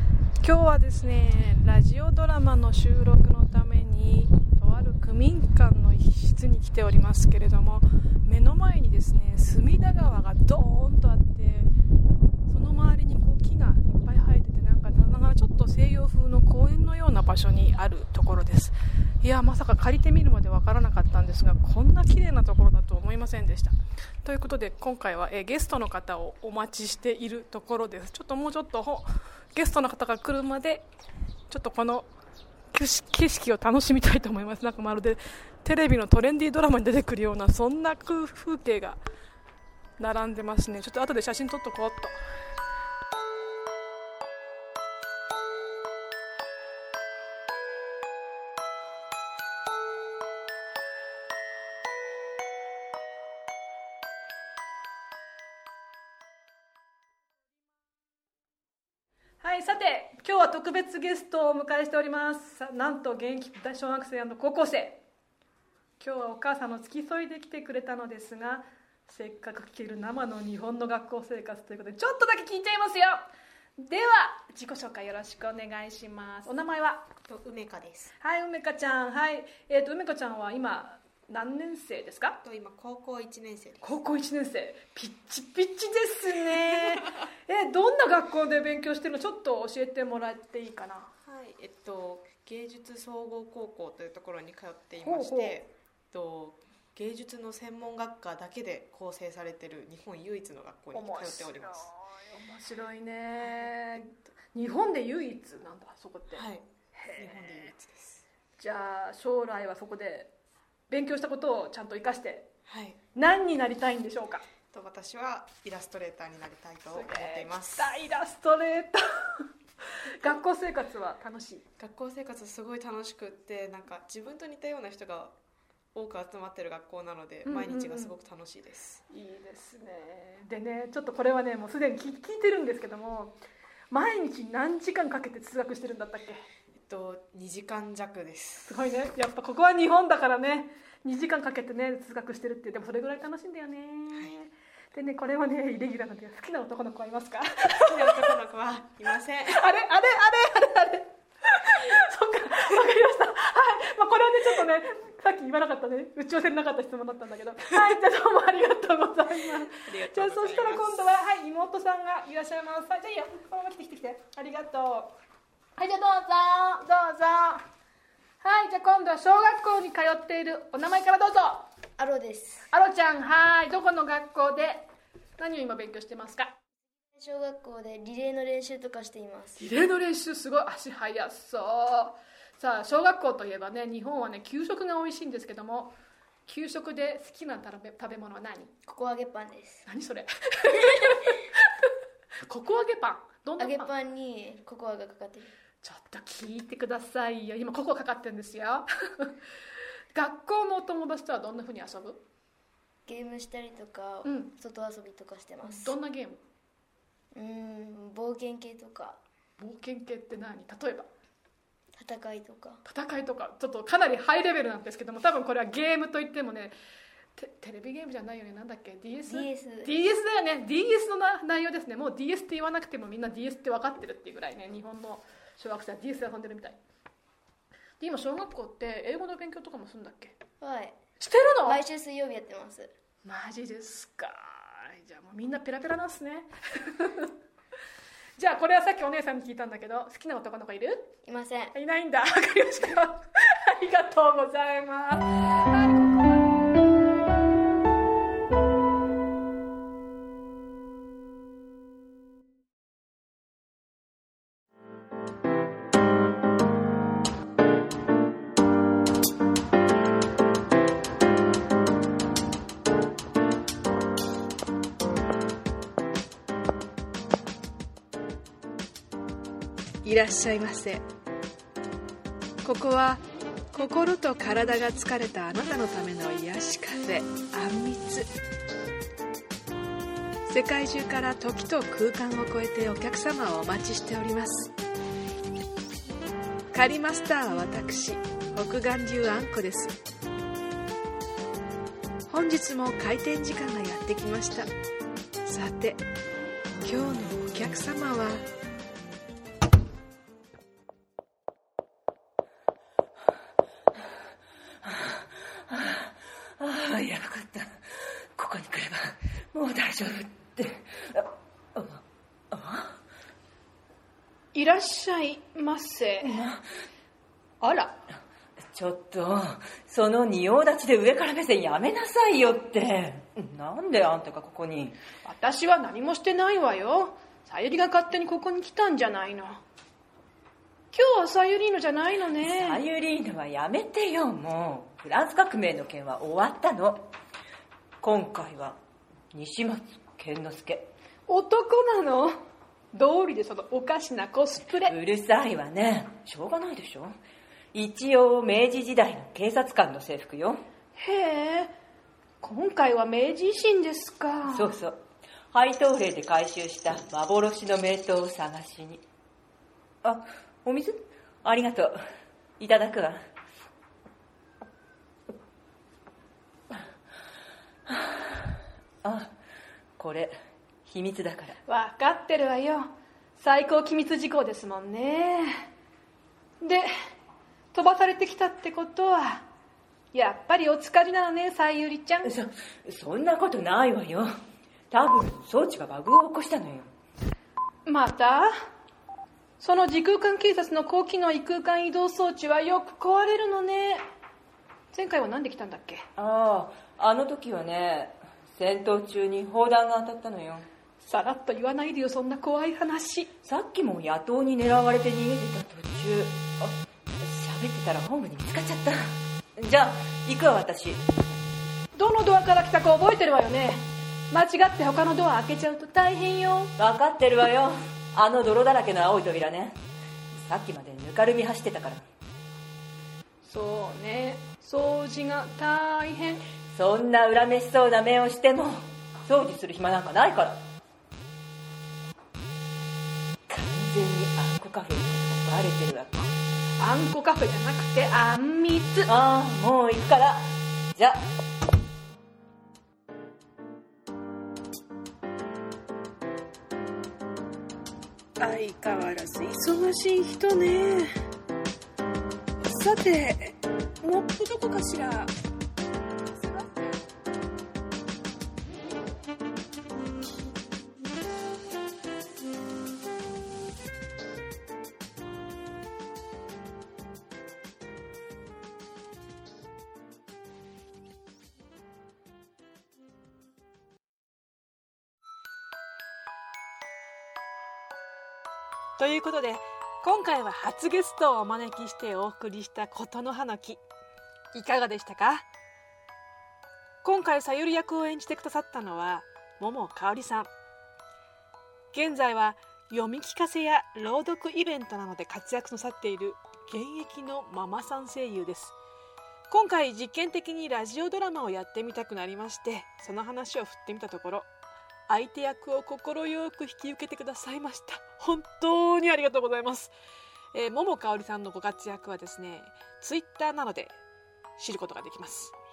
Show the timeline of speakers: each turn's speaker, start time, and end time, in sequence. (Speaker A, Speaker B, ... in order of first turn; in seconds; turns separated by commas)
Speaker A: 0.4-11.7, Speaker A: 12.5-30.9, Speaker A: 31.5-32.1, Speaker A: 32.7-39.0, Speaker A: 40.0-42.2, Speaker A: 59.4-65.0, Speaker A: 66.0-77.1, Speaker B: 77.3-78.1, Speaker A: 78.2-82.4, Speaker B: 82.4-84.0, Speaker A: 83.8-91.1, Speaker B: 91.3-101.9, Speaker A: 95.0-95.5, Speaker A: 100.9-106.5, Speaker B: 106.3-108.2, Speaker A: 107.0-107.7, Speaker A: 108.6-110.3, Speaker A: 110.9-112.5, Speaker B: 112.7-113.0, Speaker A: 113.2-114.4, Speaker B: 114.7-118.0, Speaker A: 116.9-119.4, Speaker A: 120.0-121.7, Speaker B: 121.8-125.3, Speaker B: 126.0-129.0, Speaker A: 127.5-128.2, Speaker A: 129.1-133.4, Speaker A: 133.9-136.4, Speaker B: 136.9-138.8, Speaker A: 138.7-148.3, Speaker B: 147.8-149.7, Speaker A: 149.5-165.1, Speaker B: 159.8-161.2, Speaker A: 165.8-167.6, Speaker A: 168.4-171.7, Speaker C: 172.0-172.7, Speaker A: 172.7-176.6, Speaker C: 177.2-179.7, Speaker A: 179.6-185.9, Speaker A: 186.5-188.7, Speaker C: 188.8-189.9, Speaker A: 189.9-191.6, Speaker A: 192.4-193.9, Speaker C: 193.6-195.6, Speaker A: 195.8-199.4, Speaker A: 200.1-202.2, Speaker C: 203.1-206.0, Speaker A: 204.2-204.5, Speaker A: 205.6-206.4, Speaker C: 207.3-209.2, Speaker A: 209.6-211.1, Speaker C: 211.9-212.8, Speaker A: 212.8-216.7, Speaker A: 217.3-226.8, Speaker C: 219.3-220.0, Speaker A: 228.0-230.4, Speaker C: 230.6-231.0, Speaker A: 231.2-231.8, Speaker C: 231.6-232.9, Speaker A: 233.2-237.3, Speaker A: 238.4-241.1, Speaker C: 241.2-241.7, Speaker A: 241.7-246.7, Speaker A: 270.1-271.0, Speaker A: 272.6-273.2, Speaker A: 273.7-278.3, Speaker A: 280.5-284.7, Speaker A: 286.7-289.9, Speaker A: 292.3-294.7, Speaker A: 295.5-296.0, Speaker A: 296.9-298.4, Speaker D: 304.8-313.0, Speaker A: 314.5-316.4, Speaker D: 316.2-316.6, Speaker A: 317.6-318.0, Speaker D: 318.7-325.0, Speaker A: 325.2-329.6, Speaker A: 330.9-332.8, Speaker D: 332.4-337.1, Speaker D: 338.0-338.8, Speaker D: 339.3-340.9, Speaker A: 341.3-342.4, Speaker A: 342.9-345.0, Speaker D: 344.8-347.1, Speaker D: 347.7-350.6, Speaker A: 351.0-351.7, Speaker A: 352.4-354.7, Speaker D: 354.4-355.0, Speaker D: 355.5-359.0, Speaker D: 360.0-361.9, Speaker D: 362.6-363.2, Speaker D: 369.0-369.3, Speaker D: 370.0-370.3, Speaker D: 370.9-371.6, Speaker A: 371.6-375.6, Speaker A: 376.6-376.9, Speaker A: 377.7-379.5, Speaker A: 380.1-382.4, Speaker D: 382.2-384.3, Speaker D: 384.9-386.9, Speaker A: 387.9-388.5, Speaker A: 389.6-394.1, Speaker A: 394.9-396.1, Speaker D: 396.2-400.7, Speaker A: 401.0-403.3, Speaker D: 403.4-411.0, Speaker A: 411.9-416.7, Speaker D: 416.8-419.8, Speaker D: 420.4-422.0, Speaker A: 423.4-426.4, Speaker D: 426.7-430.6, Speaker D: 433.5-436.3, Speaker A: 436.8-439.1, Speaker D: 439.1-441.3, Speaker A: 448.4-451.1, Speaker A: 452.6-455.3, Speaker A: 456.4-457.0, Speaker A: 479.0-483.8, Speaker A: 484.5-485.5, Speaker A: 487.0-490.5, Speaker A: 491.9-498.8, Speaker A: 499.5-504.5, Speaker A: 505.1-509.9, Speaker A: 510.5-513.9, Speaker A: 514.6-515.5